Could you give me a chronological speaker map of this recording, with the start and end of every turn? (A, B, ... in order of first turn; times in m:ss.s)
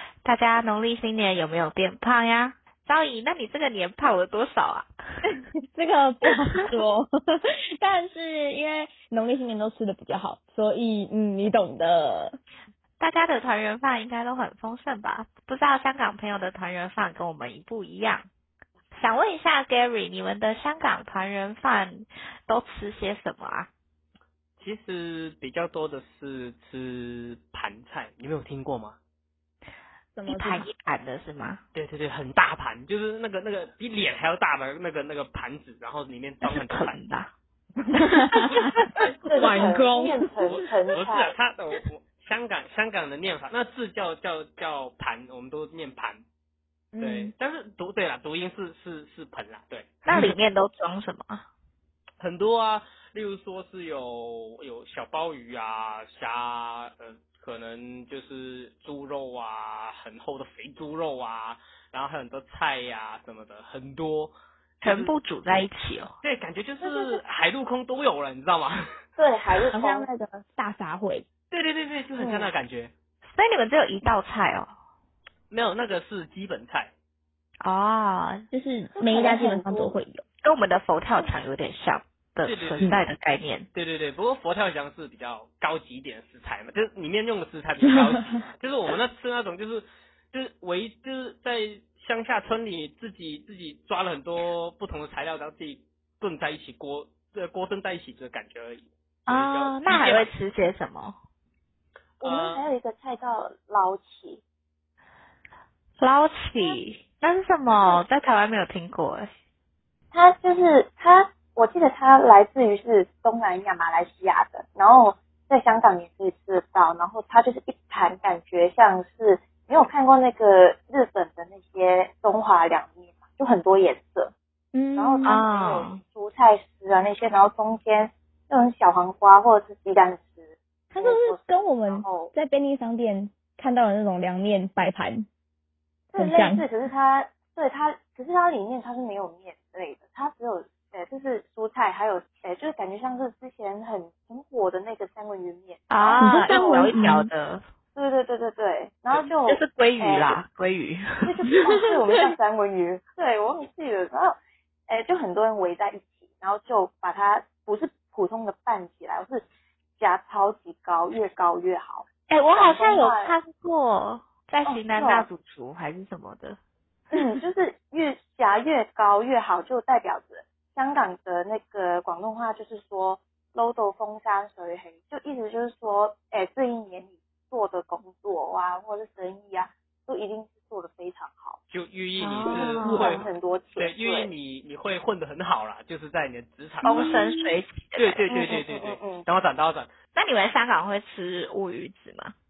0:00.2-0:04.9 A
0:05.3-0:12.4 B
0:13.0-0:18.3 A
0:18.9-0:23.7 A
0:24.6-0:29.0 C
0:30.1-0:30.7 B
0:30.3-0:31.6 A
0:31.7-0:37.0 C
0:36.4-0:37.3 A
0:37.8-0:40.3 B
0:39.2-0:41.4 D
0:40.4-0:46.2 C
0:46.9-0:47.3 B
0:47.0-0:50.4 C
0:50.0-0:51.4 A
0:52.2-1:05.2 C
1:04.8-1:06.1 A
1:06.2-1:08.8 C
1:06.8-1:07.2 D
1:09.2-1:10.1 D
1:09.7-1:11.3 B
1:11.5-1:12.9 C
1:12.2-1:12.5 D
1:13.3-1:14.7 A
1:15.5-1:16.9 C
1:17.6-1:18.4 A
1:18.5-1:20.2 B
1:19.0-1:20.0 D
1:20.4-1:23.7 A
1:22.4-1:23.1 C
1:23.7-1:40.3 C
1:39.3-1:41.2 A
1:42.2-1:42.7 C
1:42.2-1:44.4 D
1:46.0-1:49.3 A
1:50.1-2:04.3 D
2:04.7-2:05.4 B
2:04.9-2:12.3 D
2:05.3-2:06.0 A
2:10.9-2:15.3 B
2:16.1-2:26.9 D
2:16.2-2:16.7 B
2:25.9-2:27.6 A
2:26.2-2:27.3 B
2:27.9-2:30.4 D
2:29.1-2:32.2 A
2:31.2-2:34.4 D
2:34.9-2:39.4 D
2:40.0-2:43.3 D
2:42.3-2:46.6 A
2:44.6-2:45.3 D
2:47.1-3:01.6 D
3:01.7-3:07.2 C
3:02.2-3:03.0 A
3:02.4-3:03.2 B
3:02.6-3:04.3 D
3:06.8-3:08.4 A
3:07.0-3:07.5 B
3:08.0-3:09.9 C
3:08.3-3:09.3 D
3:10.2-3:12.3 A